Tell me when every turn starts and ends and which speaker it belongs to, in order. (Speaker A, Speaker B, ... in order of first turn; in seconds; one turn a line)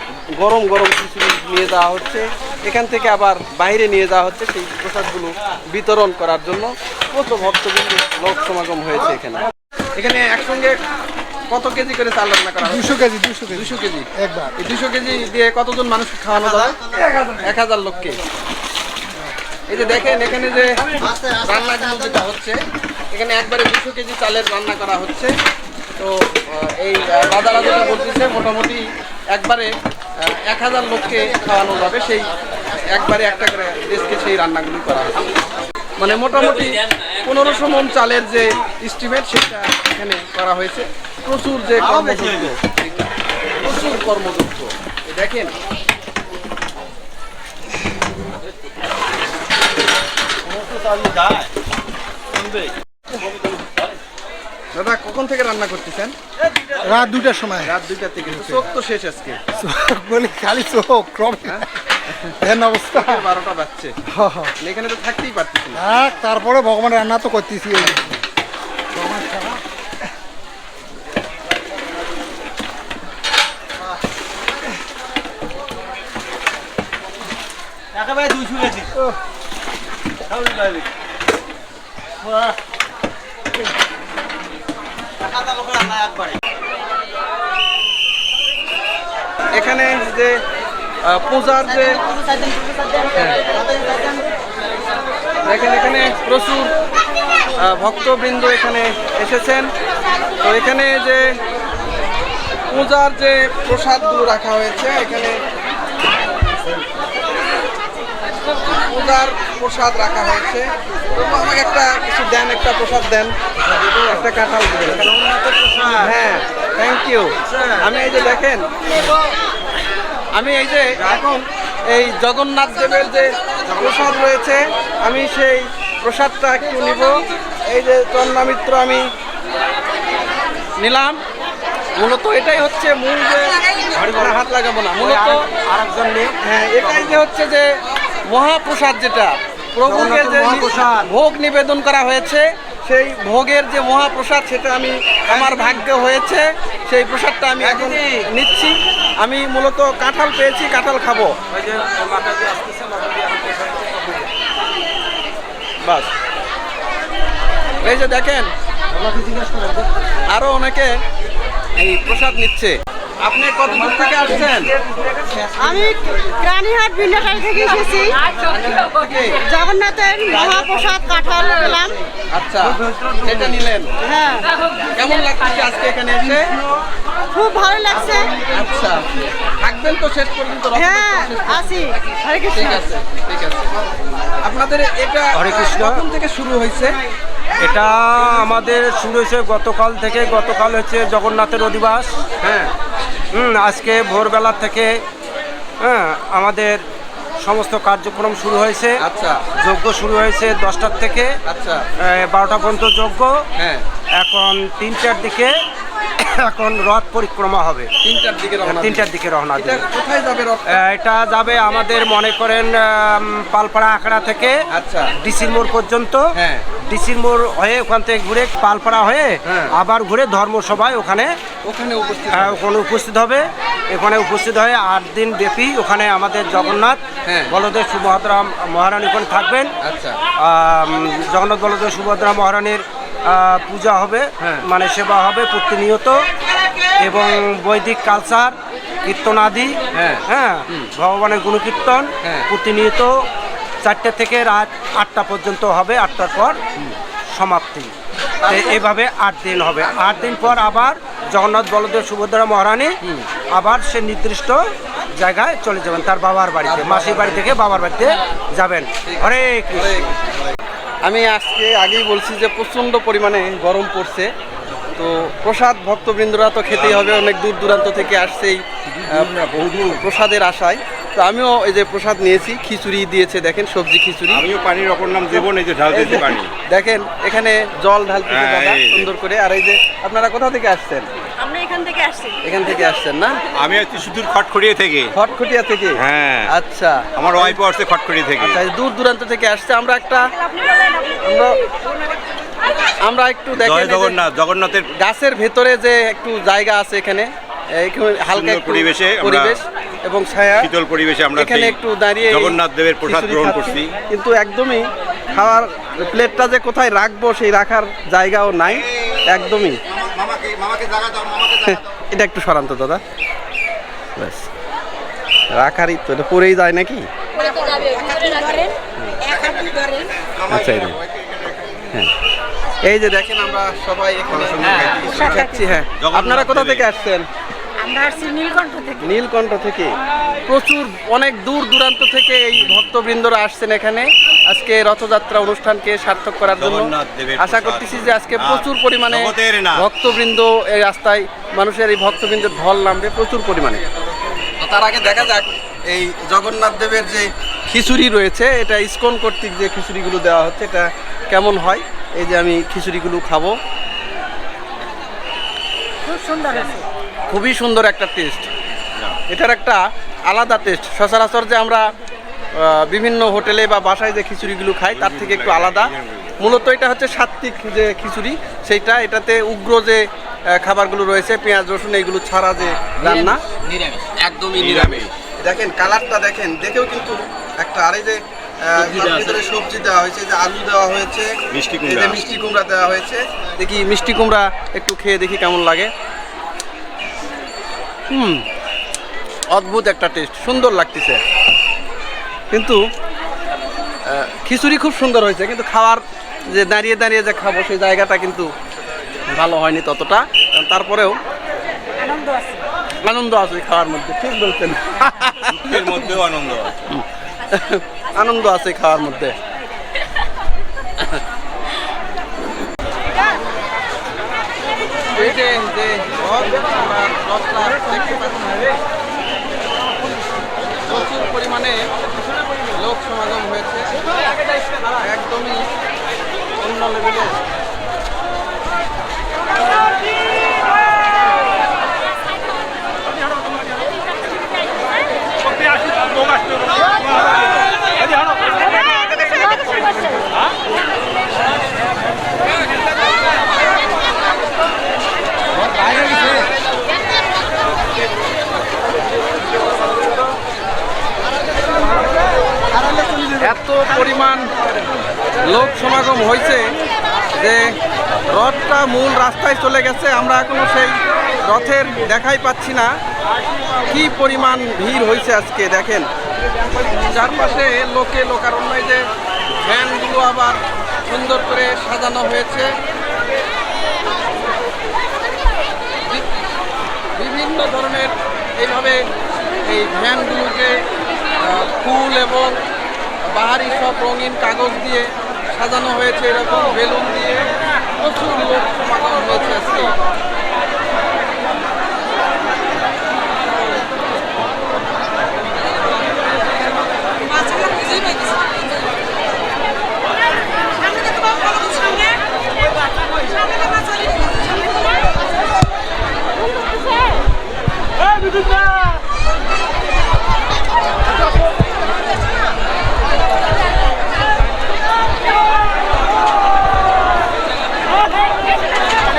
Speaker A: 0.4-10.8
Speaker A: 11.5-18.2
Speaker B: 12.7-13.6
Speaker B: 14.2-14.5
Speaker A: 19.7-20.8
Speaker A: 21.4-22.6
Speaker A: 23.1-25.3
Speaker A: 26.0-29.7
Speaker A: 30.3-32.3
Speaker A: 32.9-35.3
Speaker A: 36.0-43.1
Speaker A: 43.6-45.5
Speaker A: 54.8-56.1
Speaker B: 56.8-57.6
Speaker A: 57.6-59.4
Speaker B: 59.6-61.4
Speaker A: 61.5-62.4
Speaker B: 62.4-63.2
Speaker A: 62.9-63.9
Speaker B: 64.2-64.5
Speaker A: 64.6-65.8
Speaker B: 65.8-68.0
Speaker A: 89.5-90.4
Speaker A: 91.1-92.0
Speaker A: 93.2-93.4
Speaker A: 95.5-96.7
Speaker A: 97.6-99.7
Speaker A: 100.4-101.3
Speaker A: 102.7-105.4
Speaker A: 108.7-113.3
Speaker A: 113.9-115.1
Speaker A: 116.0-118.7
Speaker A: 120.3-129.1
Speaker C: 123.7-124.0
Speaker A: 130.8-131.2
Speaker A: 132.0-135.4
Speaker C: 133.9-137.2
Speaker A: 136.4-137.8
Speaker A: 138.3-151.4
Speaker C: 139.8-141.1
Speaker C: 145.3-145.8
Speaker C: 147.6-148.2
Speaker C: 151.5-154.3
Speaker A: 155.8-156.1
Speaker A: 157.8-158.5
Speaker C: 159.1-159.7
Speaker A: 160.3-160.9
Speaker A: 161.8-164.7
Speaker D: 165.6-168.2
Speaker A: 168.5-169.4
Speaker D: 169.4-172.0
Speaker A: 172.3-173.9
Speaker D: 174.0-174.5
Speaker A: 175.0-176.5
Speaker D: 177.3-178.3
Speaker A: 178.5-179.0
Speaker A: 179.6-181.9
Speaker D: 180.8-182.8
Speaker A: 182.5-183.7
Speaker A: 184.4-187.0
Speaker C: 185.3-186.0
Speaker C: 187.6-192.1
Speaker A: 192.4-192.7
Speaker C: 193.3-194.9
Speaker C: 195.8-196.8
Speaker C: 197.4-199.0
Speaker A: 199.0-199.4
Speaker C: 199.6-201.3
Speaker A: 201.5-201.8
Speaker C: 202.0-203.4
Speaker A: 203.6-203.8
Speaker C: 204.2-205.5
Speaker C: 206.2-207.9
Speaker A: 208.0-210.8
Speaker C: 208.6-209.9
Speaker C: 210.7-214.6
Speaker A: 214.7-215.1
Speaker C: 215.2-216.2
Speaker A: 216.3-216.7
Speaker C: 216.8-221.3
Speaker A: 219.4-219.8
Speaker A: 221.7-222.6
Speaker C: 222.3-229.7
Speaker A: 227.2-227.5
Speaker A: 229.8-230.2
Speaker C: 230.4-236.2
Speaker A: 234.4-234.7
Speaker C: 237.0-243.2
Speaker A: 239.9-240.9
Speaker A: 242.2-242.5
Speaker C: 243.8-246.6
Speaker C: 247.3-247.9
Speaker A: 248.4-248.8
Speaker C: 248.5-252.9
Speaker C: 253.5-260.1
Speaker A: 256.6-257.8
Speaker A: 259.1-260.3
Speaker A: 261.1-264.3
Speaker A: 265.0-269.3
Speaker E: 266.7-267.1
Speaker E: 268.9-270.0
Speaker A: 270.0-274.4
Speaker E: 274.3-276.5
Speaker A: 275.9-281.1
Speaker E: 278.3-279.1
Speaker D: 281.4-282.4
Speaker A: 282.4-283.4
Speaker E: 283.6-285.1
Speaker A: 285.1-287.6
Speaker E: 286.0-286.5
Speaker E: 287.2-288.6
Speaker A: 288.4-290.3
Speaker D: 290.5-291.2
Speaker A: 291.2-291.6
Speaker A: 293.0-294.2
Speaker E: 293.5-294.9
Speaker A: 295.0-297.3
Speaker A: 297.8-300.7
Speaker E: 298.3-299.6
Speaker E: 300.6-301.8
Speaker A: 301.4-309.9
Speaker E: 302.3-303.9
Speaker E: 310.2-311.1
Speaker A: 311.6-313.0
Speaker A: 314.2-314.5
Speaker A: 315.6-317.1
Speaker D: 317.4-320.1
Speaker A: 320.5-321.0
Speaker A: 322.8-327.3
Speaker E: 324.3-326.8
Speaker D: 327.8-329.0
Speaker A: 329.0-329.9
Speaker A: 330.5-343.8
Speaker E: 336.6-339.8
Speaker A: 344.6-353.6
Speaker E: 345.0-345.5
Speaker D: 356.1-356.9
Speaker A: 357.3-358.5
Speaker A: 359.3-361.9
Speaker A: 362.6-373.4
Speaker E: 364.9-366.3
Speaker A: 374.2-385.9
Speaker E: 374.6-375.1
Speaker E: 378.8-379.4
Speaker E: 381.5-382.2
Speaker A: 388.1-388.4
Speaker A: 389.5-391.2
Speaker A: 392.5-392.8
Speaker A: 394.1-398.5
Speaker A: 399.4-401.2
Speaker D: 402.0-402.6
Speaker A: 403.0-405.8
Speaker E: 405.5-406.8
Speaker A: 406.9-409.4
Speaker A: 415.1-418.7
Speaker A: 420.9-421.8
Speaker A: 422.8-423.9
Speaker A: 425.0-425.6
Speaker A: 426.6-427.4
Speaker D: 438.7-440.0
Speaker A: 453.2-454.5
Speaker A: 455.4-456.7
Speaker A: 457.4-457.7
Speaker A: 458.3-462.9
Speaker A: 463.9-466.1
Speaker A: 467.0-469.1
Speaker A: 469.6-472.7
Speaker A: 477.2-479.0
Speaker A: 479.7-480.8
Speaker A: 481.4-482.6
Speaker A: 483.2-489.9
Speaker D: 497.7-498.2
Speaker D: 501.4-501.9